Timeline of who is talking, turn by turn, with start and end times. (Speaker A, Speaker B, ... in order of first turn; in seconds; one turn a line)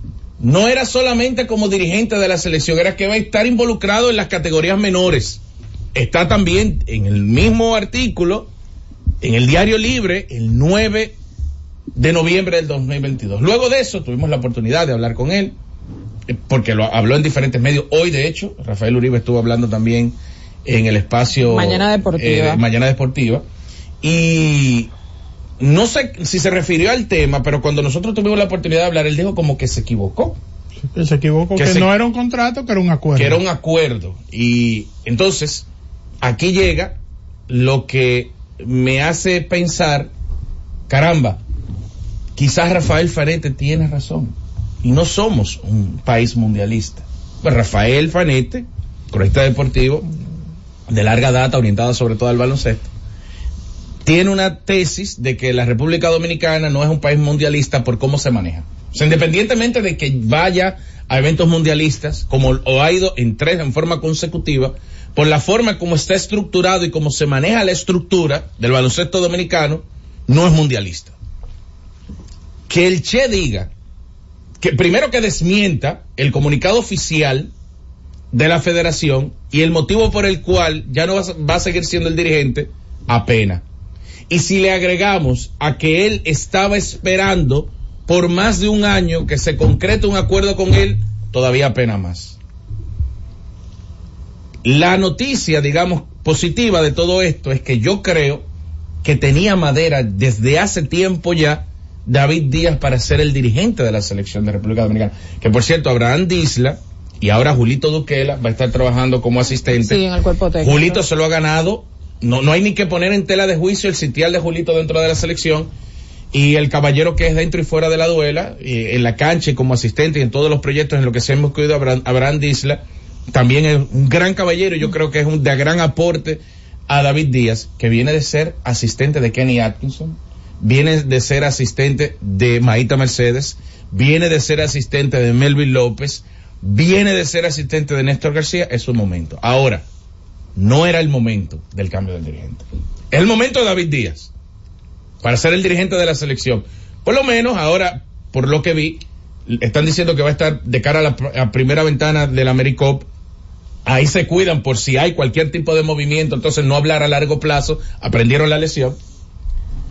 Speaker A: 0.4-5.4
Speaker A: 5.9-8.5
Speaker A: 9.2-11.2
Speaker A: 11.9-15.6
Speaker A: 16.3-23.4
Speaker B: 21.5-22.6
Speaker A: 24.0-24.9
Speaker A: 25.6-30.4
Speaker C: 30.9-33.4
Speaker A: 31.6-31.9
Speaker A: 33.1-35.7
Speaker A: 36.2-37.0
Speaker A: 37.5-40.1
Speaker A: 40.9-41.4
Speaker A: 42.4-50.1
Speaker A: 50.9-52.9
Speaker A: 54.0-71.1
Speaker A: 72.7-73.7
Speaker A: 74.6-77.5
Speaker A: 78.3-83.6
Speaker A: 84.3-92.4
Speaker A: 94.6-98.5
Speaker A: 99.0-110.0
Speaker B: 109.8-111.0
Speaker A: 110.6-115.7
Speaker A: 116.3-139.8
Speaker A: 140.5-144.3
Speaker A: 145.2-153.1
Speaker A: 153.8-159.0